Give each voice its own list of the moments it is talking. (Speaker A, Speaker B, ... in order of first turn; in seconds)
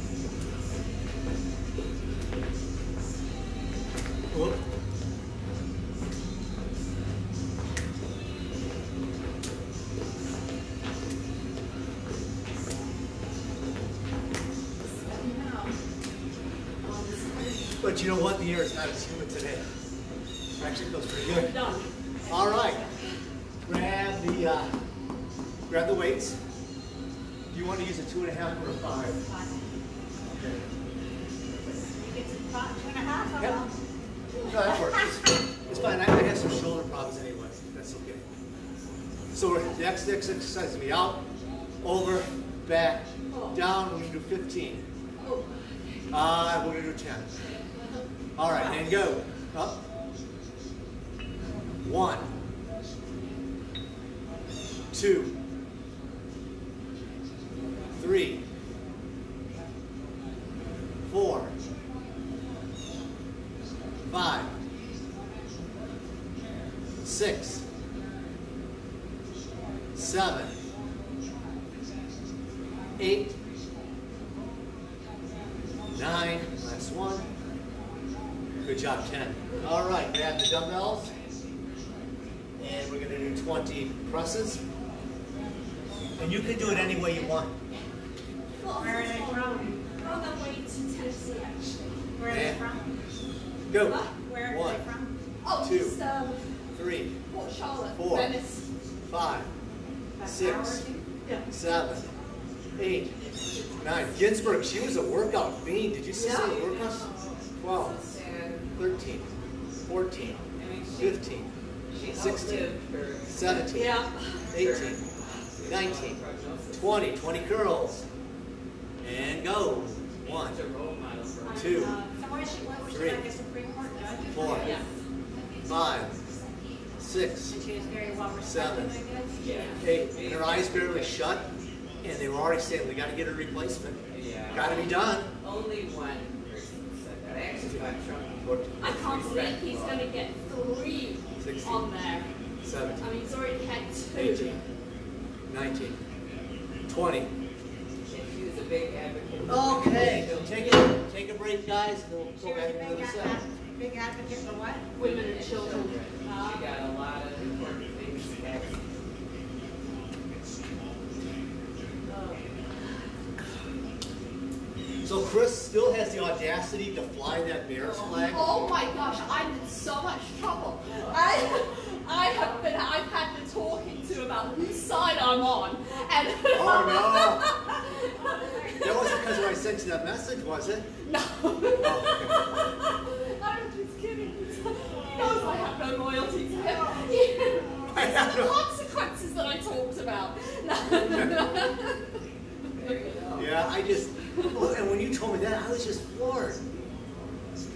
Speaker A: 4.3-4.6, 17.8-19.6, 20.6-21.6, 22.3-22.8, 23.7-24.7, 25.7-26.4, 27.5-29.2, 30.2-30.6, 34.4-38.2, 39.3-41.2, 41.8-44.8, 46.1-47.3, 48.4-49.8, 51.8-52.3, 54.9-55.4, 57.9-58.4, 61.1-61.5, 64.1-64.5, 67.0-67.6, 70.0-70.5, 73.0-73.4, 75.9-77.3, 78.6-81.1, 82.6-84.6, 86.2-87.5, 92.3-92.6, 93.7-94.8, 95.6-96.0, 96.8-97.1, 98.0-98.3, 99.1-99.5, 100.2-100.8, 101.5-102.1, 102.8-103.2, 103.8-108.0, 108.8-109.3, 109.9-110.5, 111.0-111.5, 112.1-112.7, 113.3-115.0, 115.6-116.2, 116.7-118.0, 119.0-120.6, 121.5-122.0, 122.9-123.2, 124.3-124.8, 125.7-126.2, 127.0-127.6, 128.4-129.0, 129.8-131.5, 132.0-135.3, 137.6-137.9, 138.4-138.9, 141.4-141.9, 142.6-143.1, 145.5-146.0, 146.9-147.3, 149.5-153.4, 165.1-168.7, 176.5-177.5, 178.8-180.9, 181.8-182.4, 187.9-188.6, 193.4-196.6
Speaker B: 14.8-15.8, 16.8-18.0, 106.3-108.8, 110.6-111.2, 111.9-113.7, 114.5-117.5, 120.3-122.0, 124.5-124.8, 129.4-131.3, 134.1-140.1, 144.3-144.6, 148.1-150.9, 155.0-158.8, 162.1-162.4, 167.8-168.9, 192.7-193.6
Speaker C: 21.2-21.9, 43.3-43.6, 45.2-46.0, 88.6-91.9, 93.8-94.1, 95.4-96.6, 97.3-98.7, 106.1-106.6, 113.7-114.5, 124.6-124.8, 129.4-129.8, 138.8-142.3, 143.0-144.6, 155.0-156.6, 168.2-179.3, 181.1-192.0, 192.8-193.1
Speaker D: 22.2-22.9, 29.3-29.6, 31.6-33.7, 88.8-90.2, 92.2-93.0, 94.2-95.1, 100.2-101.0, 121.5-124.8, 127.5-129.3, 152.4-154.8, 178.2-179.0, 184.9-185.7, 186.5-187.2